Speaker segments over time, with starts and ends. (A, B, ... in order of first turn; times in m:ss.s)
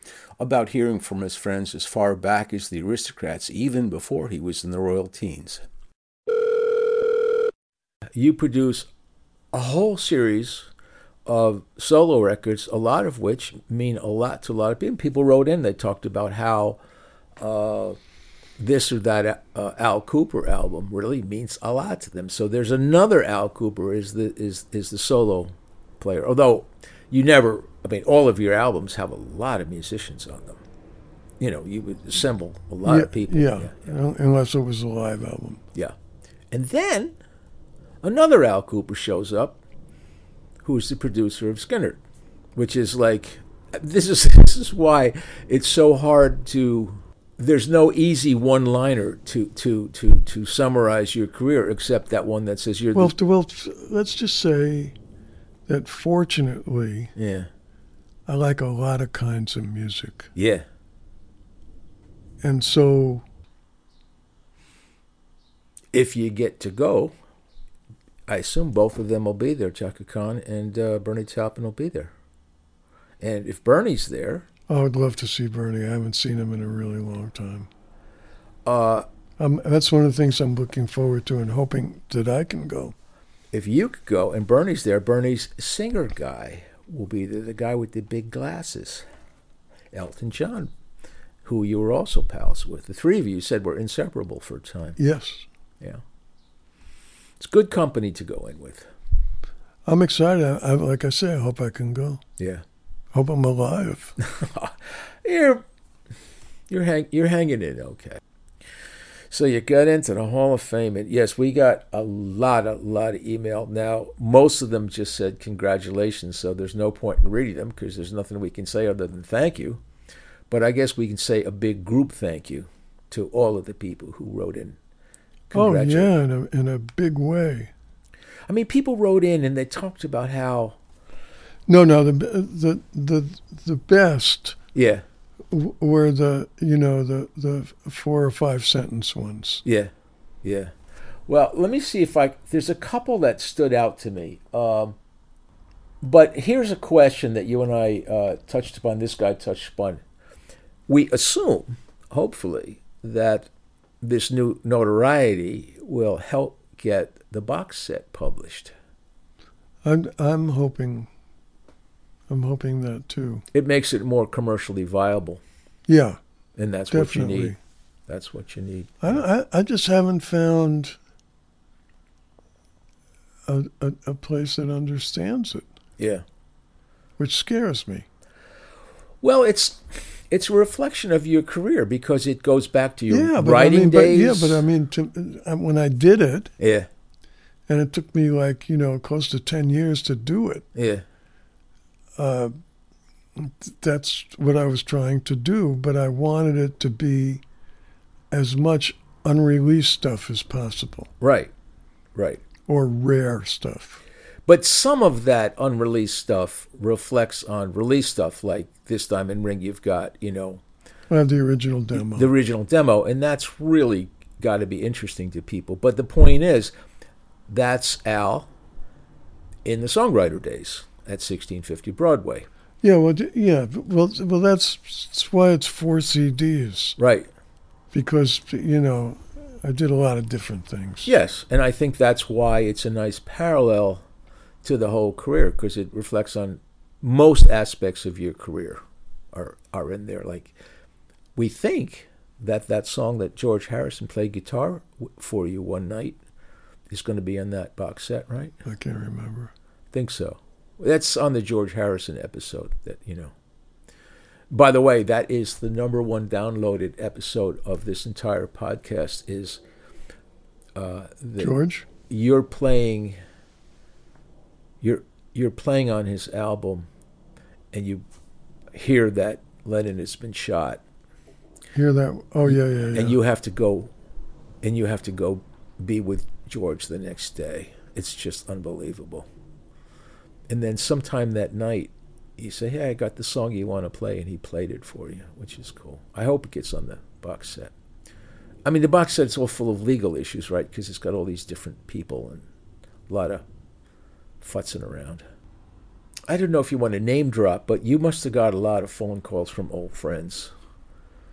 0:00.4-0:05.6 A
0:08.1-0:08.9 A
0:09.5-0:10.7 A
0:11.2-0:16.8 A
0:17.4-0:18.0 A
0:18.6-0:30.6 A
0:31.4-0:33.9 A
0:32.8-0:35.6 B
0:36.5-0:37.1 A
0:38.0-0:39.6 A
0:40.6-0:42.0 A
0:42.6-0:53.2 A
0:52.9-0:55.0 B
0:55.7-0:57.1 B
0:57.2-0:57.5 A
0:58.3-1:00.3 B
1:00.3-1:00.6 A
1:02.4-1:03.2 B
1:05.9-1:07.1 A
1:08.3-1:12.1 A
1:13.2-1:14.4 A
1:14.7-1:17.7 B
1:18.6-1:19.0 A
1:19.4-1:22.9 B
1:23.5-1:29.0 A
1:29.9-1:30.7 A
1:31.4-1:35.0 A
1:35.0-1:35.4 B
1:37.4-1:38.9 A
1:39.8-1:42.2 B
1:42.4-1:42.6 A
1:43.1-1:44.1 B
1:44.2-1:45.6 A
1:46.7-1:48.2 A
1:49.3-1:59.8 A
2:00.5-2:04.8 A
2:05.5-2:06.1 A
2:05.5-2:07.7 B
2:08.5-2:10.8 A
2:11.7-2:14.6 B
2:14.7-2:15.0 A
2:15.5-2:19.6 B
2:19.6-2:19.9 A
2:20.4-2:20.7 A
2:21.3-2:25.0 A
2:26.0-2:30.0 A
2:30.9-2:33.5 A
2:34.0-2:38.7 A
2:39.8-2:41.1 B
2:42.3-2:43.4 B
2:43.5-2:45.4 A
2:45.9-2:46.2 B
2:46.6-2:47.5 A
2:46.9-2:47.6 B
2:48.1-2:49.2 A
2:49.0-2:51.0 B
2:53.5-2:55.6 B
2:56.0-2:56.2 A
2:57.2-2:58.0 B
2:59.2-3:04.6 A
3:03.1-3:06.5 B
3:06.6-3:06.9 A
3:07.7-3:10.6 B
3:10.7-3:11.0 A
3:12.2-3:12.5 B
3:13.4-3:17.4 B
3:18.3-3:21.1 B
3:21.2-3:21.5 A
3:22.1-3:22.4 A
3:22.7-3:24.0 B
3:24.5-3:30.6 A
3:31.1-3:32.3 B
3:31.9-3:36.7 A
3:37.5-3:38.5 A
3:39.6-3:42.5 A
3:42.8-3:47.0 B
3:47.0-3:47.3 A
3:47.9-3:51.1 B
3:51.0-3:54.0 A
3:54.6-3:58.8 A
3:59.3-4:00.5 A
4:01.4-4:06.2 A
4:06.9-4:08.5 A
4:08.6-4:09.5 B
4:09.9-4:13.3 A
4:14.5-4:19.6 A
4:20.8-4:21.5 A
4:21.4-4:21.9 B
4:22.1-4:23.2 A
4:24.8-4:26.8 A
4:27.7-4:28.0 A
4:28.7-4:30.8 A
4:31.7-4:33.2 B
4:32.4-4:33.9 A
4:34.6-4:39.2 A
4:40.5-4:47.7 A
4:48.6-4:52.4 A
4:53.1-4:53.4 A
4:54.4-4:55.2 A
4:56.3-5:00.5 A